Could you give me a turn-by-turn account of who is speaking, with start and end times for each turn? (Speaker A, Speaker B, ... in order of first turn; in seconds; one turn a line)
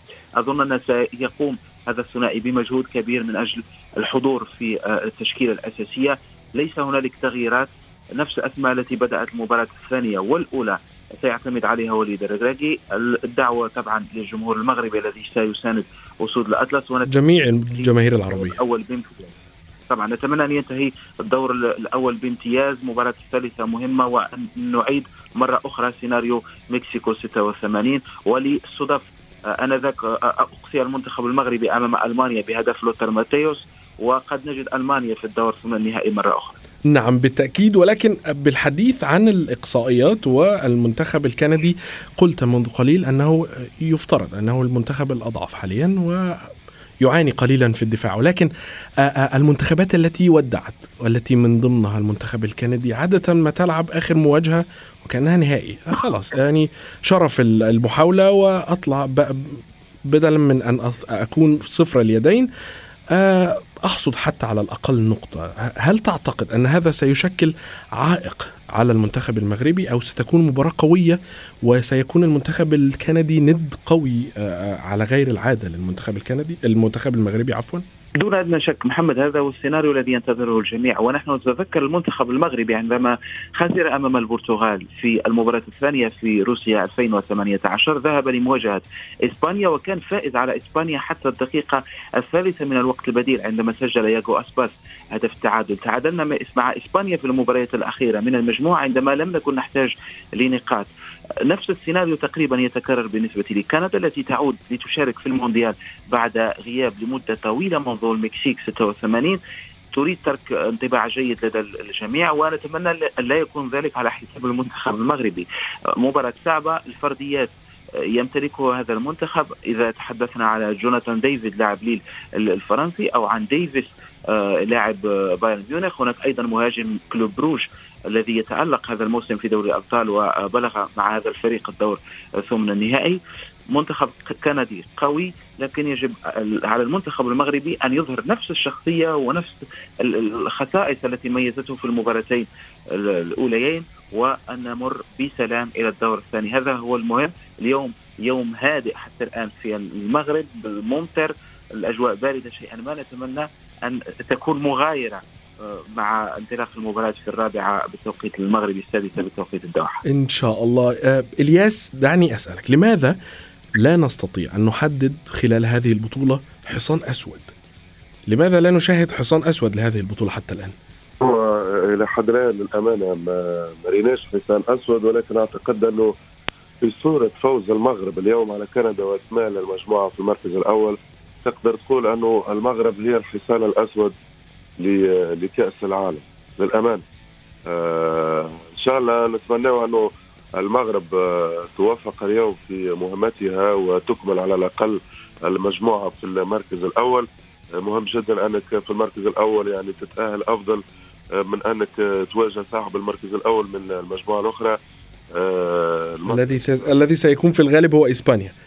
Speaker A: 0.4-17.1
Speaker B: 17.1-18.6
Speaker A: 17.7-19.4
Speaker A: 19.9-36.6
Speaker B: 36.9-46.5
Speaker B: 47.0-48.5
Speaker B: 49.0-62.5
Speaker B: 63.1-77.8
Speaker A: 78.2-100.9
Speaker A: 101.5-109.4
Speaker A: 109.9-133.2
Speaker A: 133.7-160.0
Speaker B: 160.0-163.2
Speaker B: 163.8-167.5
Speaker B: 168.3-170.7
Speaker C: 171.2-176.1
Speaker C: 176.8-184.1
Speaker C: 184.8-187.0
Speaker C: 187.7-200.8
Speaker C: 201.3-204.8
Speaker C: 205.3-206.6
Speaker B: 206.3-208.5